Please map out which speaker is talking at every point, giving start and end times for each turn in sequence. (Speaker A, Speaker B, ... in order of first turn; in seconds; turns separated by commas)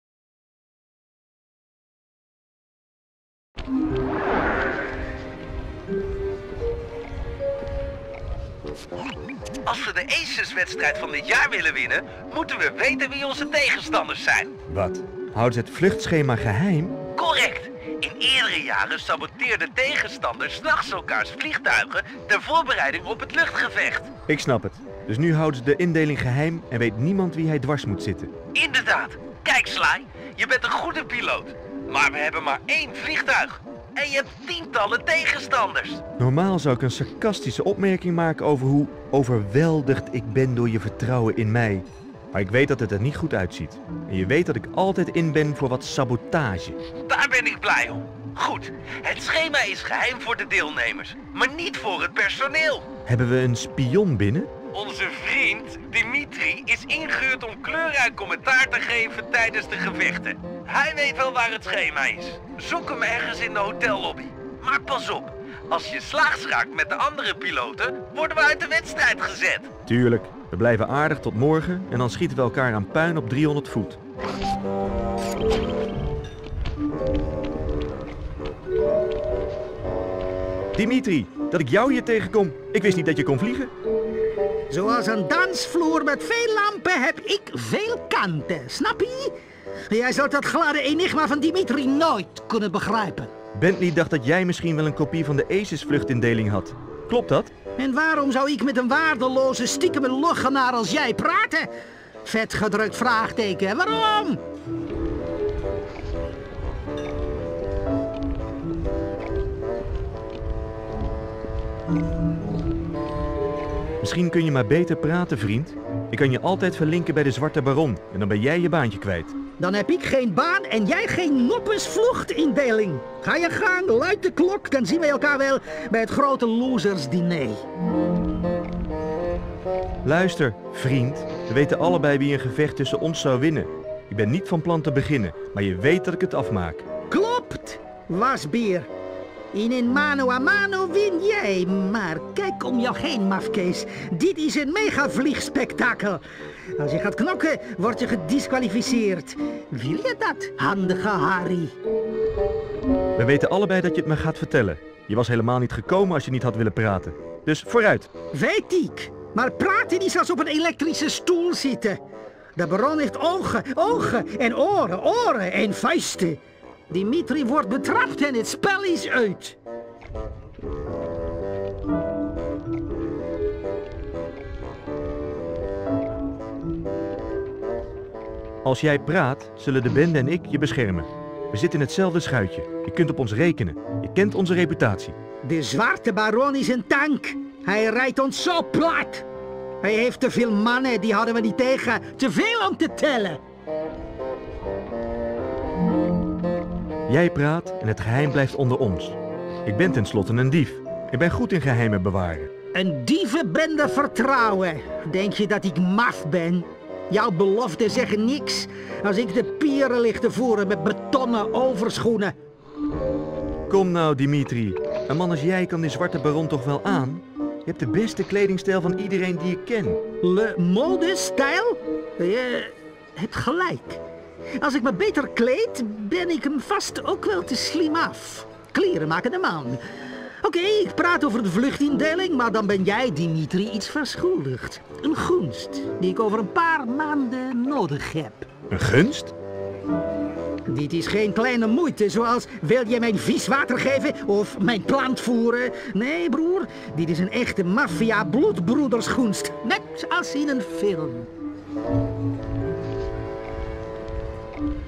Speaker A: 9.6-14.5, Speaker B: 14.7-17.0, Speaker A: 17.1-24.1, Speaker B: 24.3-28.3, Speaker A: 28.5-36.0, Speaker B: 36.2-46.8, Speaker A: 47.1-52.9, Speaker B: 53.0-54.5, Speaker A: 54.7-69.7, Speaker B: 69.8-74.0, Speaker B: 80.7-83.7, Speaker C: 84.7-89.3, Speaker C: 89.9-93.3, Speaker B: 93.5-97.5, Speaker C: 97.8-101.7, Speaker C: 102.2-104.4, Speaker B: 114.0-119.3, Speaker C: 119.6-127.6, Speaker B: 130.0-136.8, Speaker C: 137.1-138.9, Speaker C: 139.5-146.2, Speaker C: 146.8-151.7, Speaker B: 153.2-158.1, Speaker C: 158.3-162.0, Speaker C: 162.6-169.6, Speaker B: 178.6-185.1, Speaker C: 185.4-189.2, Speaker C: 189.8-193.4, Speaker B: 197.1-202.5, Speaker C: 202.7-212.3, Speaker B: 213.7-220.0, Speaker C: 220.2-224.0, Speaker C: 224.6-229.8, Speaker C: 230.4-238.5, Speaker B: 238.7-239.3, Speaker C: 240.7-251.3